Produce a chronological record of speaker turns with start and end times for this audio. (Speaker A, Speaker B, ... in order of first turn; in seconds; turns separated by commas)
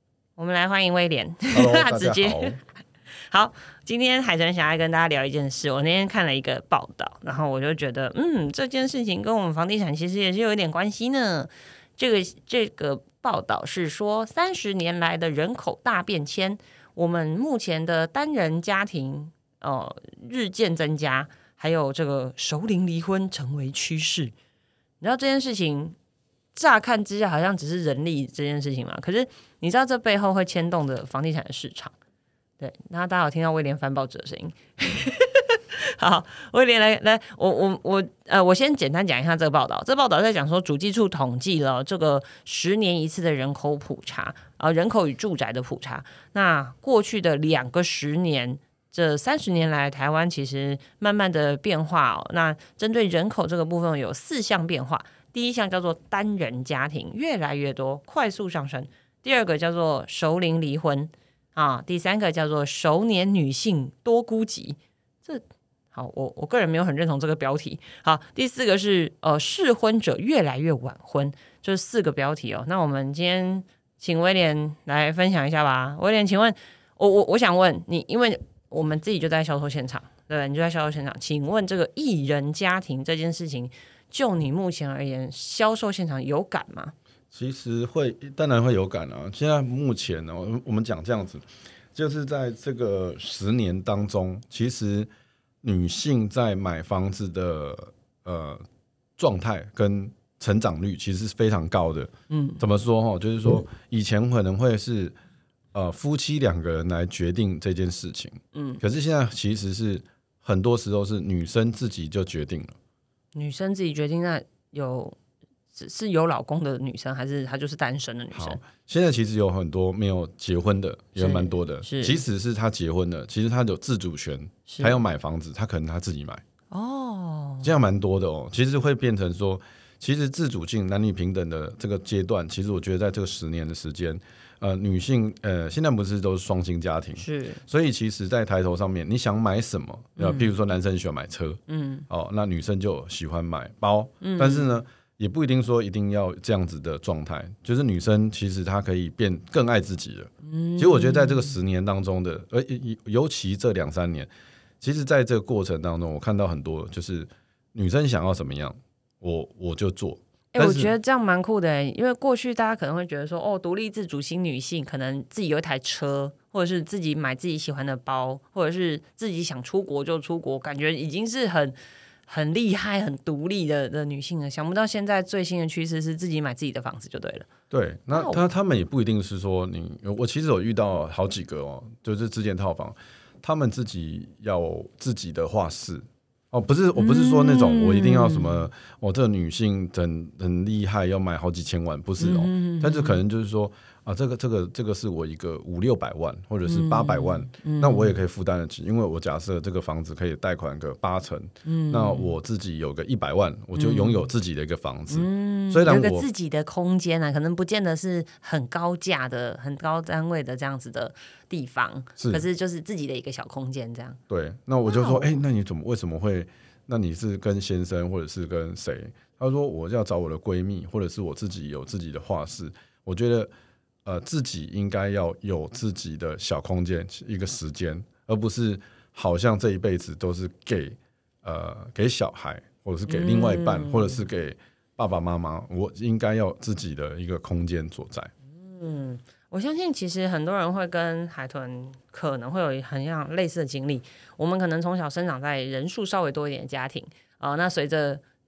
Speaker A: 0.4-2.6, Speaker B: 1.5-2.6, Speaker A: 3.3-24.3, Speaker A: 25.0-25.9, Speaker A: 26.5-31.9, Speaker A: 32.6-65.4, Speaker A: 65.9-86.9, Speaker B: 87.3-95.1, Speaker B: 95.6-98.6, Speaker B: 99.2-105.1, Speaker A: 102.3-102.6, Speaker B: 105.7-112.7, Speaker A: 108.5-108.8, Speaker A: 113.3-115.2, Speaker A: 115.7-118.6, Speaker B: 118.3-126.4, Speaker A: 121.2-122.2, Speaker A: 124.7-125.0, Speaker A: 126.7-127.7, Speaker B: 127.6-154.3, Speaker A: 137.2-137.6, Speaker A: 140.2-140.5, Speaker A: 141.7-142.1, Speaker A: 144.2-144.7, Speaker A: 150.4-151.6, Speaker B: 154.8-160.9, Speaker A: 160.5-171.8, Speaker A: 172.3-177.5, Speaker B: 177.7-206.3, Speaker A: 178.1-178.5, Speaker A: 186.9-188.7, Speaker A: 192.2-193.2, Speaker A: 196.6-198.2, Speaker A: 201.6-202.3, Speaker A: 203.7-204.3, Speaker A: 205.1-214.2, Speaker B: 212.2-212.4, Speaker B: 214.3-223.5, Speaker A: 214.9-215.4, Speaker B: 224.0-238.3, Speaker A: 233.1-234.3, Speaker A: 238.5-248.2